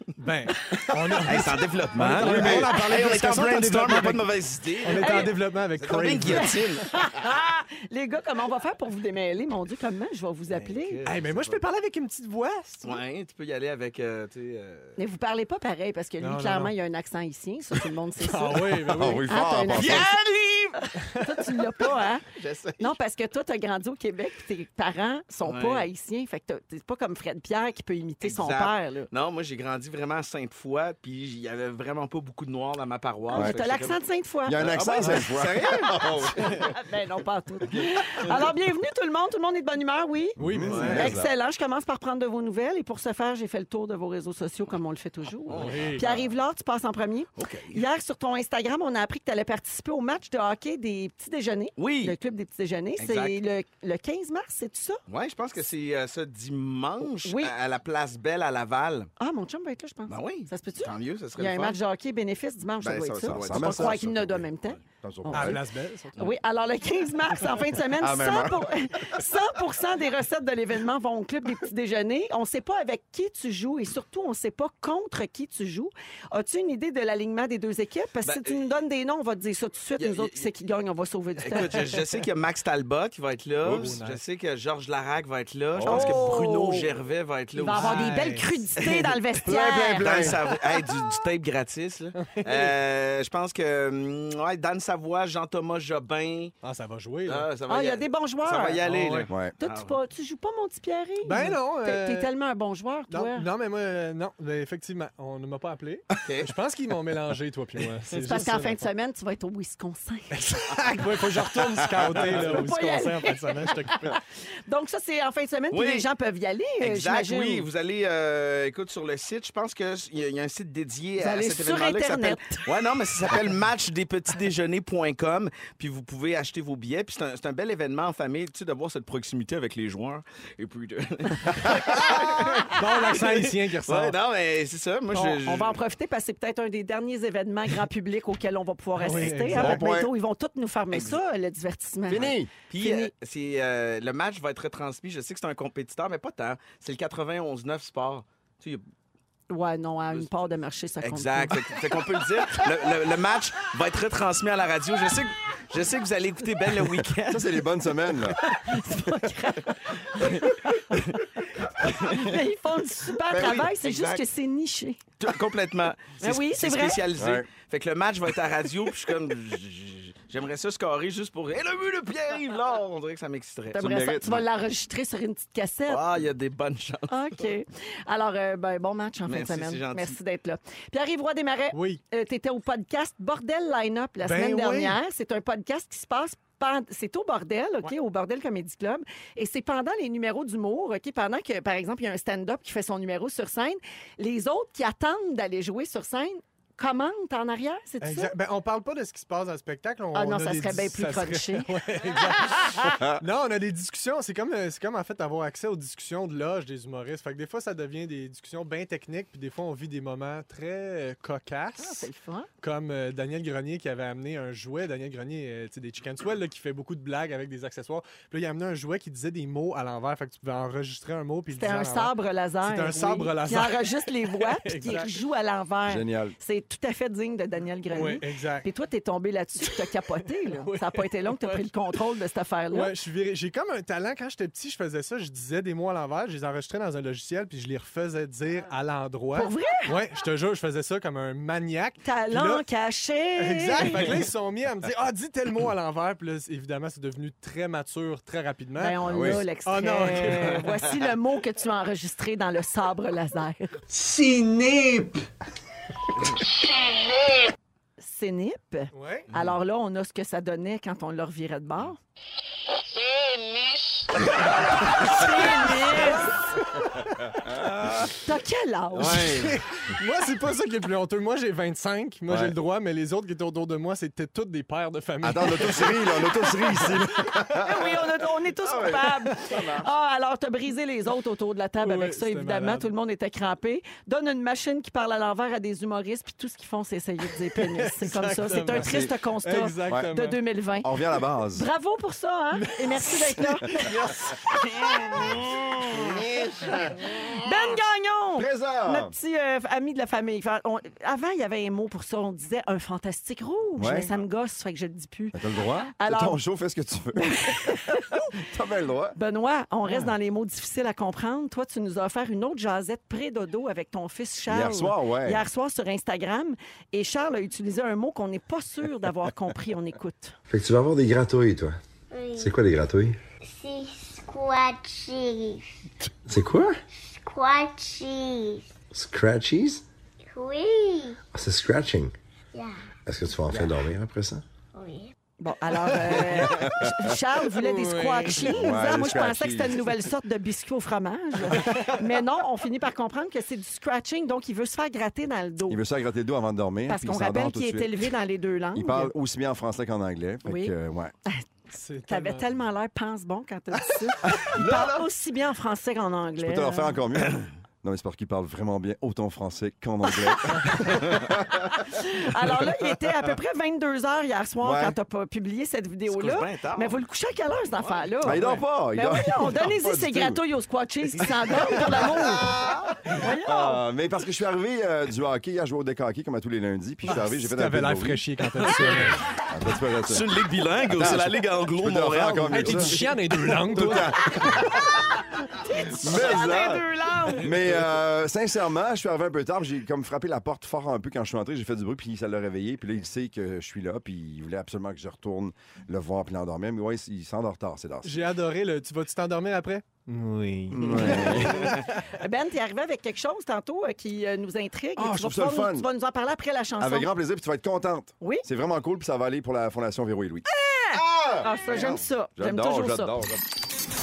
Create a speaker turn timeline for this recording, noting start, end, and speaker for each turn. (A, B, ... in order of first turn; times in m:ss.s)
0:00.2-0:06.5 A
0:01.2-0:06.9 B
0:01.9-0:02.7 C
0:05.0-0:05.3 D
0:06.3-0:11.0 D
0:10.5-0:11.6 B
0:11.0-0:13.0 A
0:12.8-0:15.0 B
0:15.0-0:20.1 D
0:16.2-0:16.7 A
0:18.2-0:21.7 A
0:18.9-0:20.1 C
0:20.8-0:22.2 D
0:22.3-0:22.9 B
0:22.8-0:29.1 D
0:25.4-0:25.9 B
0:28.2-0:34.0 B
0:33.3-0:35.2 D
0:33.3-0:33.6 C
0:34.4-0:36.7 C
0:34.6-0:36.7 B
0:36.7-0:55.0 D
0:37.7-0:38.0 C
0:40.4-0:41.3 C
0:40.4-0:41.1 A
0:40.7-0:41.1 B
0:45.5-0:46.1 B
0:45.5-0:46.2 A
0:47.4-0:47.8 B
0:51.8-0:52.2 B
0:53.0-0:53.4 B
0:55.1-0:59.1 B
0:57.2-0:57.5 D
0:59.2-1:05.6 D
1:00.1-1:01.8 B
1:02.8-1:03.9 B
1:03.1-1:05.6 C
1:05.3-1:06.2 A
1:06.2-1:22.0 D
1:08.0-1:08.7 C
1:18.2-1:18.6 B
1:20.0-1:20.4 B
1:21.4-1:28.1 B
1:23.6-1:23.9 C
1:23.7-1:24.2 A
1:25.7-1:26.2 C
1:25.8-1:26.9 D
1:27.6-1:30.4 D
1:27.7-1:28.6 A
1:28.8-1:36.5 B
1:29.4-1:30.4 C
1:32.2-1:32.7 A
1:36.6-1:37.5 A
1:37.2-1:40.0 B
1:37.7-1:38.8 D
1:38.8-1:39.3 A
1:39.3-1:39.5 C
1:39.6-1:43.5 D
1:41.2-1:42.3 A
1:43.1-1:48.8 A
1:46.2-1:46.5 B
1:48.2-1:50.3 D
1:50.3-1:54.2 A
1:52.3-1:52.5 B
1:52.3-1:57.7 D
1:55.7-1:56.0 B
1:56.8-2:15.8 B
2:01.2-2:02.6 D
2:11.9-2:14.2 A
2:15.1-2:23.1 D
2:19.0-2:19.8 A
2:19.5-2:20.1 C
2:22.1-2:22.5 C
2:22.1-2:28.8 B
2:29.5-2:31.7 D
2:31.0-2:37.6 B
2:37.3-2:38.4 C
2:38.4-2:41.0 D
2:40.2-2:41.2 B
2:41.8-2:45.0 D
2:41.8-2:42.3 B
2:43.3-2:44.2 B
2:45.2-2:54.0 B
2:46.2-2:47.0 D
2:47.2-2:47.5 C
2:53.7-2:56.0 D
2:53.8-2:54.4 C
2:55.9-2:57.4 B
2:57.1-3:18.3 D
2:59.3-3:00.2 B
3:01.7-3:02.0 A
3:04.2-3:05.0 A
3:18.0-3:32.1 A
3:20.1-3:21.7 D
3:22.9-3:23.2 C
3:31.8-3:32.5 D
3:32.6-3:45.1 A
3:41.5-3:52.9 D
3:45.8-3:46.4 C
3:47.9-3:48.7 A
3:50.4-3:51.0 A
3:52.7-4:02.6 A
3:59.3-4:00.0 D
4:02.0-4:04.2 D
4:03.4-4:10.9 A
4:08.8-4:13.7 D
4:09.0-4:09.4 C
4:13.9-4:15.2 E
4:18.0-4:22.0 D
4:18.9-4:19.3 A
4:24.8-4:26.5 D
4:25.0-4:28.1 A
4:27.4-4:27.9 C
4:28.2-4:29.3 D
4:29.0-4:29.5 B
4:29.0-4:36.2 A
4:32.3-4:32.5 C
4:35.2-4:37.9 C
4:37.5-4:50.9 D
4:38.6-4:39.9 C
4:41.8-4:42.9 A
4:47.4-4:50.4 A
4:50.8-4:51.7 C
4:51.5-4:53.9 D
4:52.5-4:53.4 A
4:53.9-4:56.2 B
4:55.0-4:57.0 C
4:57.3-5:05.4 D
4:58.4-4:59.1 C
5:03.8-5:04.1 C
5:05.3-5:09.2 C
5:05.9-5:06.4 D
5:07.2-5:08.2 D
5:09.2-5:20.4 D
5:14.5-5:15.4 C
5:20.5-5:21.8 E
5:22.1-5:22.6 F
5:22.4-5:23.2 E
5:23.4-5:25.7 F
5:26.2-5:26.8 E
5:27.0-5:28.7 F
5:28.9-5:29.8 E
5:30.3-5:31.2 F
5:31.3-5:32.1 E
5:32.5-5:32.8 F
5:33.0-5:34.4 E
5:34.8-5:35.1 F
5:35.4-5:45.8 D
5:35.9-5:37.1 C
5:37.6-5:38.7 A
5:38.5-5:39.9 C
5:45.7-5:48.1 C
5:46.9-5:49.1 D
5:48.8-5:51.1 C
5:50.4-5:50.7 D
5:51.7-5:52.4 A
5:52.1-5:57.0 D
5:54.2-5:55.0 C
5:56.4-6:01.9 C
6:00.1-6:12.6 D
6:04.6-6:05.0 C
6:06.1-6:07.0 B
6:07.8-6:08.1 B
6:08.2-6:10.4 C
6:11.2-6:20.3 C
6:13.1-6:13.8 D
6:17.1-6:19.2 A
6:20.1-6:23.1 B
6:20.9-6:24.8 C
6:22.5-6:24.6 A
6:25.5-6:27.7 D
6:25.9-6:38.2 C
6:38.0-6:42.1 A
6:40.7-6:41.8 C
6:41.0-6:41.5 D
6:42.1-6:47.1 D
6:45.0-6:45.9 C
6:46.8-6:53.4 C
6:50.4-6:53.1 D